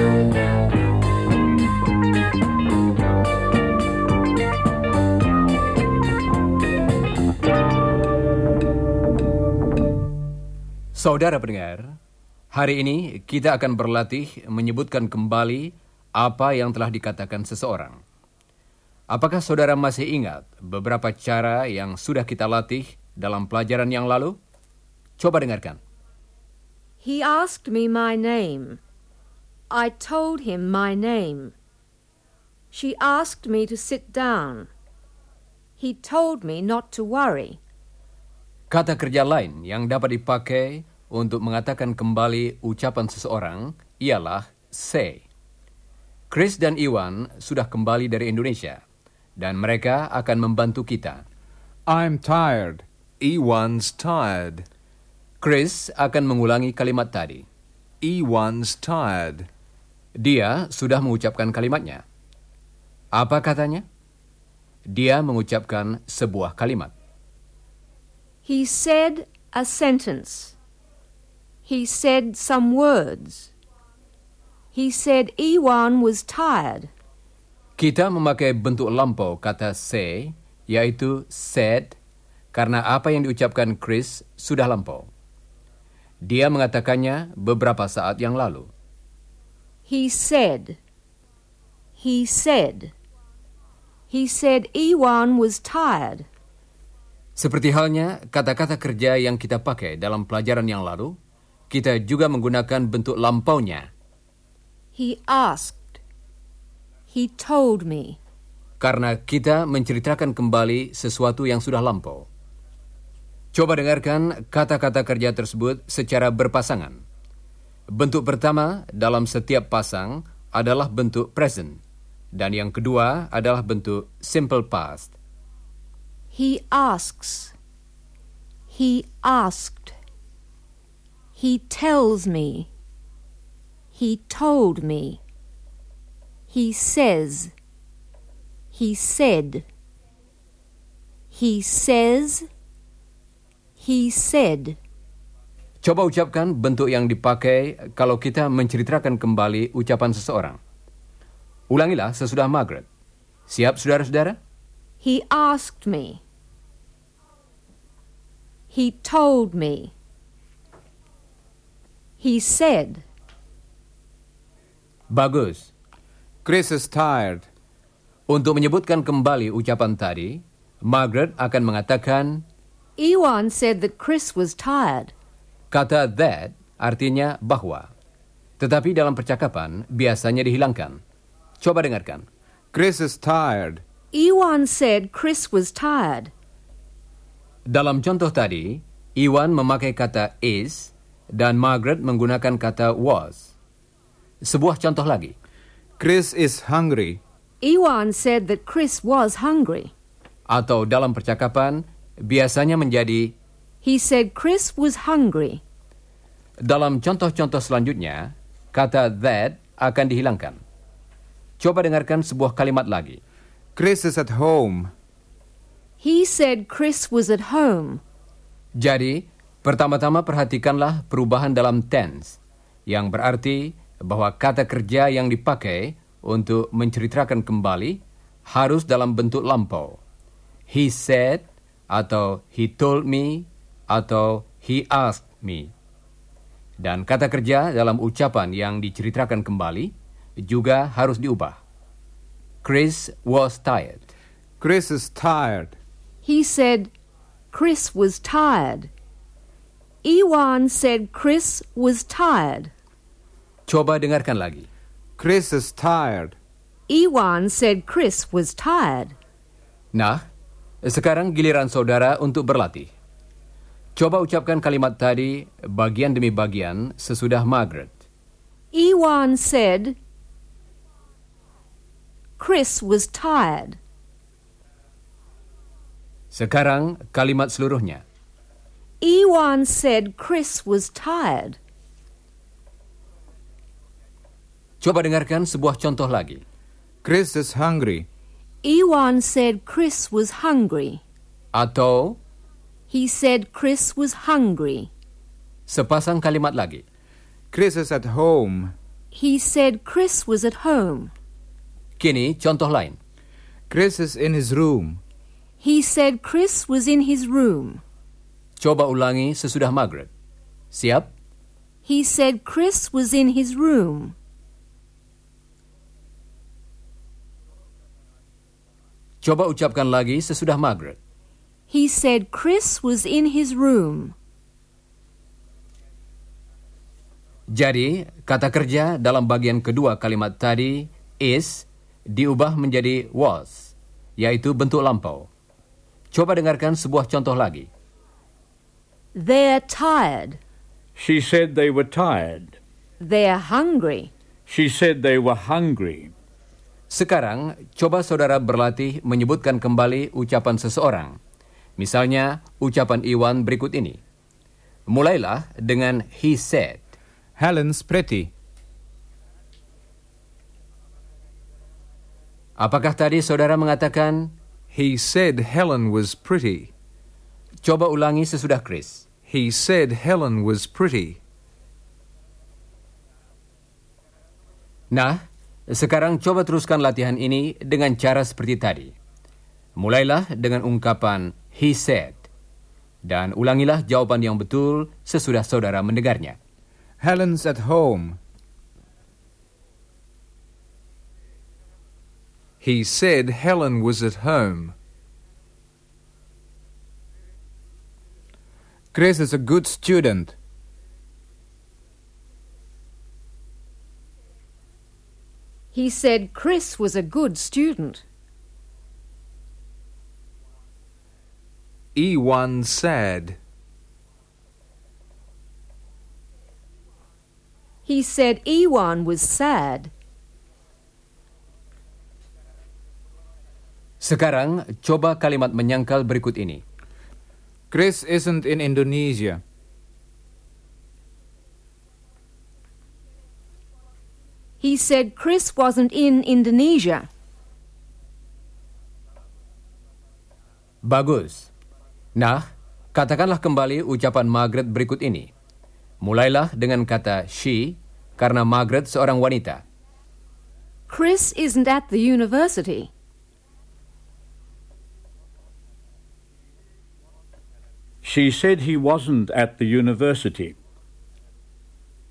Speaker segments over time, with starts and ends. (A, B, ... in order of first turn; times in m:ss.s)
0:10.9-0:12.0 A
0:12.5-0:18.0 A
0:19.1-0:24.4 A
0:25.2-0:25.8 A
0:27.0-0:28.8 B
0:29.7-0:31.5 B
0:32.7-0:34.7 B
0:35.8-0:37.6 B
0:38.7-0:45.2 A
0:46.3-0:48.8 A
0:49.4-0:51.2 A
0:51.9-0:52.8 C
0:53.2-0:54.6 D
0:55.4-0:57.4 A
0:58.0-0:59.5 D
1:00.2-1:02.0 A
1:03.1-1:03.8 A
1:04.9-1:06.9 A
1:08.4-1:10.6 B
1:11.6-1:13.5 B
1:14.7-1:16.9 B
1:17.8-1:22.0 A
1:22.5-1:25.1 A
1:26.2-1:28.7 A
1:29.9-1:30.8 B
1:32.0-1:32.9 B
1:34.1-1:36.3 B
1:37.4-1:41.2 A
1:41.7-1:43.9 A
1:44.9-1:46.0 B
1:47.1-1:48.2 B
1:48.8-1:52.3 A
1:53.5-1:57.0 A
1:57.9-2:01.8 A
2:02.3-2:05.1 A
2:06.3-2:07.5 B
2:08.7-2:09.9 B
2:11.4-2:12.7 B
2:13.9-2:15.2 B
2:16.5-2:17.5 B
2:18.7-2:19.6 B
2:21.3-2:22.5 B
2:23.8-2:24.8 B
2:25.8-2:30.6 A
2:31.7-2:32.8 A
2:33.5-2:34.4 A
2:35.0-2:36.2 B
2:38.7-2:39.9 B
2:42.2-2:43.0 B
2:45.1-2:45.7 A
2:46.4-2:47.5 C
2:48.3-2:52.4 A
2:53.0-2:55.1 B
2:55.7-2:57.9 A
2:58.6-3:01.0 A
3:01.6-3:02.2 A
3:02.7-3:03.8 C
3:04.1-3:06.3 B
3:07.7-3:13.5 A
3:14.4-3:15.3 A
3:16.0-3:17.2 C
3:17.6-3:19.9 B
3:20.5-3:23.3 A
3:23.8-3:25.6 B
3:26.6-3:30.6 A
3:31.6-3:33.2 A
3:33.8-3:34.9 C
3:36.0-3:38.0 B
3:38.8-3:50.0 A
3:50.7-3:55.7 A
3:56.8-4:01.6 A
4:02.6-4:04.0 A
4:04.6-4:05.8 C
4:06.2-4:06.9 B
4:07.5-4:08.9 B
4:10.0-4:12.7 B
4:13.7-4:14.7 A
4:15.2-4:16.4 C
4:16.9-4:19.1 B
4:19.9-4:20.2 A
4:20.8-4:22.9 A
4:24.0-4:28.0 A
4:28.7-4:30.0 B
4:32.4-4:33.8 B
4:36.3-4:38.0 A
4:39.0-4:41.6 B
4:44.8-4:46.4 A
4:47.0-4:48.0 C
4:48.6-4:51.0 B
4:51.5-4:52.2 A
4:52.9-4:54.9 B
4:55.7-4:56.8 A
4:57.5-4:58.7 C
4:59.1-5:01.1 B
5:02.0-5:03.0 A
5:03.7-5:05.0 C
5:05.6-5:07.8 B
5:08.6-5:10.1 A
5:10.7-5:11.1 A
5:11.8-5:14.1 B
5:19.2-5:21.0 A
5:21.7-5:24.1 B
5:27.5-5:35.3 A
5:36.1-5:37.7 A
5:39.1-5:40.4 B
5:41.0-5:42.6 E
5:43.0-5:44.1 B
5:44.5-5:46.1 E
5:46.9-5:51.2 A
5:51.8-5:54.0 A
5:54.9-5:56.8 A
5:57.4-5:58.3 C
6:02.6-6:04.3 A
6:04.7-6:06.7 D
6:07.6-6:09.0 A
6:09.3-6:11.2 D
6:14.9-6:18.9 A
6:19.8-6:22.2 A
6:23.0-6:26.4 A
6:27.0-6:28.2 C
6:32.6-6:34.7 D
6:38.9-6:40.3 C
6:45.7-6:48.0 B
6:51.9-6:53.4 D
6:57.8-6:59.9 B
7:04.0-7:06.6 A
7:07.7-7:09.4 C
7:14.6-7:17.1 B
7:20.8-7:21.5 A
7:22.2-7:25.3 A
7:26.0-7:29.6 A
7:30.9-7:32.9 B
7:38.0-7:40.5 E